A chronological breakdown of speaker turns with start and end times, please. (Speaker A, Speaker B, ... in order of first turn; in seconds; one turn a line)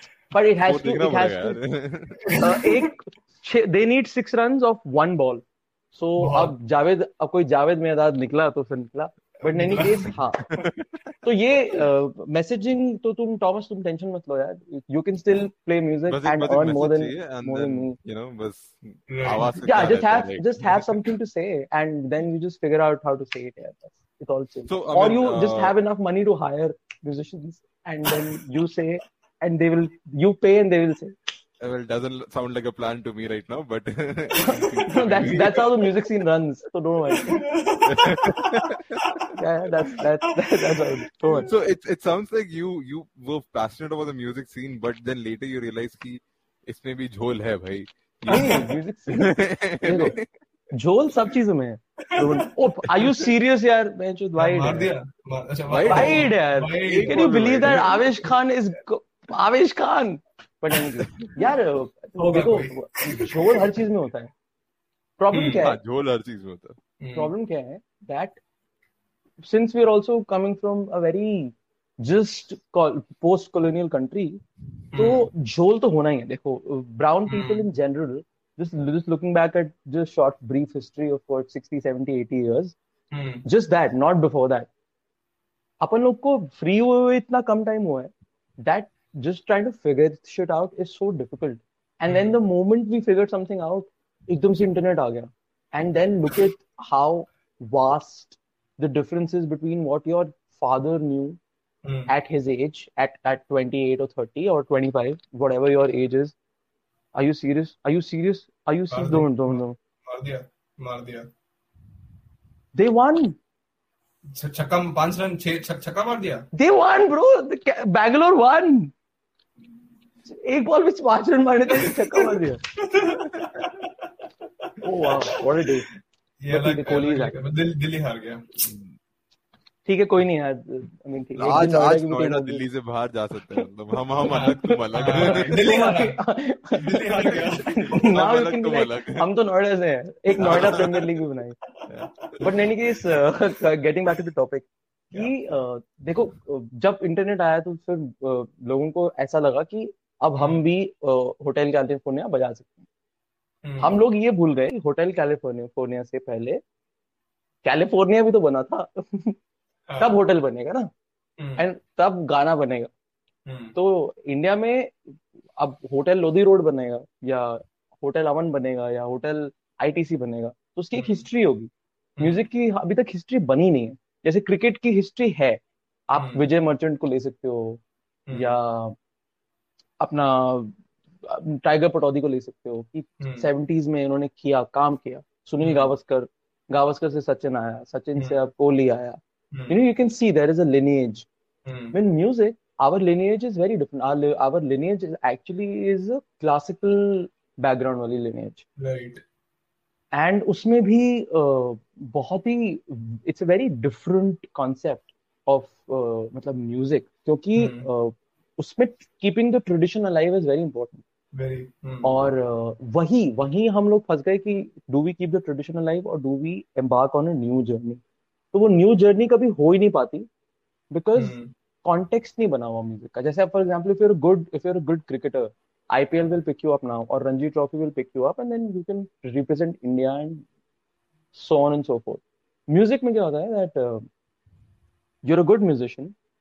Speaker A: 0.3-1.6
Speaker B: 0.6-2.3
Speaker C: 2.2-2.7
Speaker A: 2.4-10.4
Speaker C: 6.2-6.5
Speaker C: 9.4-10.7
Speaker B: 10.5-11.1
Speaker A: 11.2-17.9
Speaker B: 16.1-20.5
Speaker C: 19.1-20.0
Speaker A: 19.6-31.1
Speaker C: 20.6-21.0
Speaker B: 24.7-25.7
Speaker B: 31.6-35.7
Speaker C: 34.4-34.7
Speaker A: 34.4-37.5
Speaker C: 37.1-39.3
Speaker B: 37.9-39.2
Speaker A: 39.3-41.5
Speaker C: 40.4-41.5
Speaker B: 41.4-50.3
Speaker A: 48.3-50.1
Speaker C: 48.3-48.7
Speaker A: 50.7-54.9
Speaker C: 52.4-53.2
Speaker C: 54.4-57.3
Speaker B: 55.7-58.3
Speaker A: 55.9-64.3
Speaker C: 62.2-63.8
Speaker A: 65.2-65.8
Speaker C: 65.3-65.6
Speaker B: 65.6-66.8
Speaker C: 67.0-67.3
Speaker A: 67.1-68.4
Speaker A: 69.4-74.4
Speaker C: 74.9-75.3
Speaker A: 74.9-82.7
Speaker C: 77.3-77.6
Speaker C: 83.1-83.4
Speaker A: 83.4-84.7
Speaker A: 85.8-101.4
Speaker C: 92.1-92.3
Speaker C: 101.8-102.1
Speaker A: 102.1-106.3
Speaker A: 107.2-109.8
Speaker C: 108.9-111.3
Speaker A: 112.7-113.4
Speaker C: 114.3-116.5
Speaker A: 116.5-118.9
Speaker A: 120.2-122.6
Speaker C: 121.7-124.1
Speaker C: 124.6-125.4
Speaker A: 124.8-125.8
Speaker C: 126.4-128.7
Speaker A: 126.5-127.4
Speaker B: 128.6-128.9
Speaker A: 129.8-132.6
Speaker B: 131.3-135.5
Speaker A: 134.2-141.5
Speaker C: 134.2-136.2
Speaker C: 136.7-138.0
Speaker B: 137.9-139.2
Speaker C: 140.4-143.2
Speaker B: 140.4-140.8
Speaker B: 141.9-142.4
Speaker A: 142.4-152.8
Speaker C: 150.3-150.6
Speaker C: 153.6-154.0
Speaker A: 153.8-156.6
Speaker A: 157.6-159.4
Speaker C: 159.9-160.1
Speaker A: 160.0-160.9
Speaker C: 161.4-161.6
Speaker A: 161.6-162.9
Speaker C: 163.4-163.8
Speaker A: 163.7-164.9
Speaker A: 165.6-177.8
Speaker C: 170.9-171.2
Speaker C: 176.1-176.5
Speaker C: 178.3-178.6
Speaker A: 178.3-178.9
Speaker A: 180.0-191.2
Speaker C: 183.2-183.5
Speaker C: 185.6-185.9
Speaker C: 191.7-191.9
Speaker A: 191.9-198.6
Speaker C: 198.8-199.2
Speaker A: 200.1-211.0
Speaker C: 207.6-207.9
Speaker C: 211.3-212.1
Speaker A: 212.0-218.0
Speaker A: 218.5-220.3
Speaker A: 220.9-230.4
Speaker C: 221.1-221.5
Speaker A: 231.3-234.0
Speaker A: 235.2-236.1